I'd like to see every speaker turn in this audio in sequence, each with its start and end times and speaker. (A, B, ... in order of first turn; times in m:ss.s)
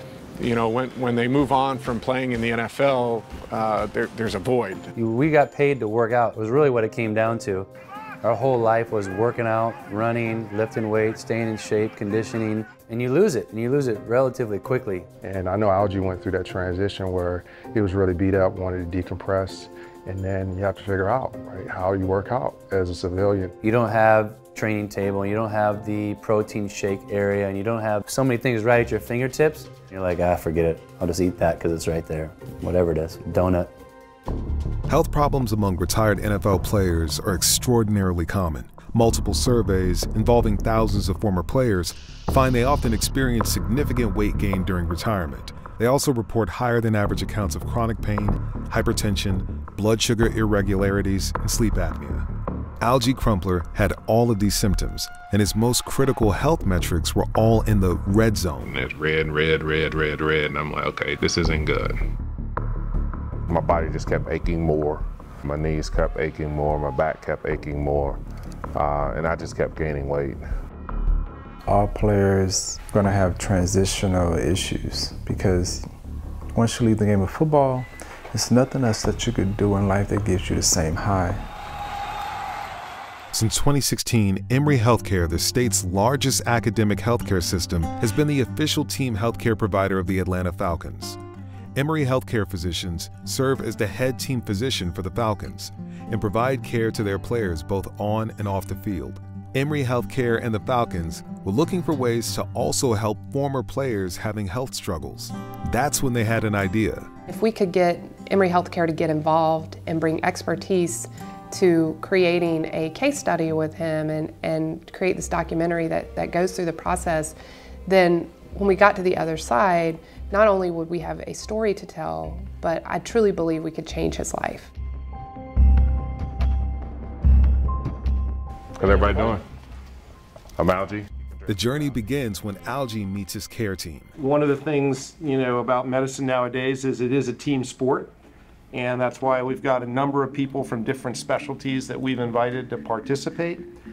0:00.4-0:04.9 A
0:05.0-0:07.7 B
0:08.2-0:15.1 B
0:15.2-0:23.5 C
0:23.6-0:33.7 B
0:34.9-0:52.3 D
0:52.8-0:58.7 D
0:58.7-1:02.0 E
1:03.5-1:08.2 E
1:08.8-1:10.4 E
1:11.7-1:15.9 F
1:16.6-1:21.4 F
1:23.3-1:31.2 D
1:31.8-1:47.1 D
1:47.3-1:57.4 G
1:57.9-2:04.7 G
2:08.8-2:09.4 E
2:10.6-2:11.1 E
2:11.5-2:14.1 D
2:14.2-2:18.1 H
2:18.7-2:23.6 H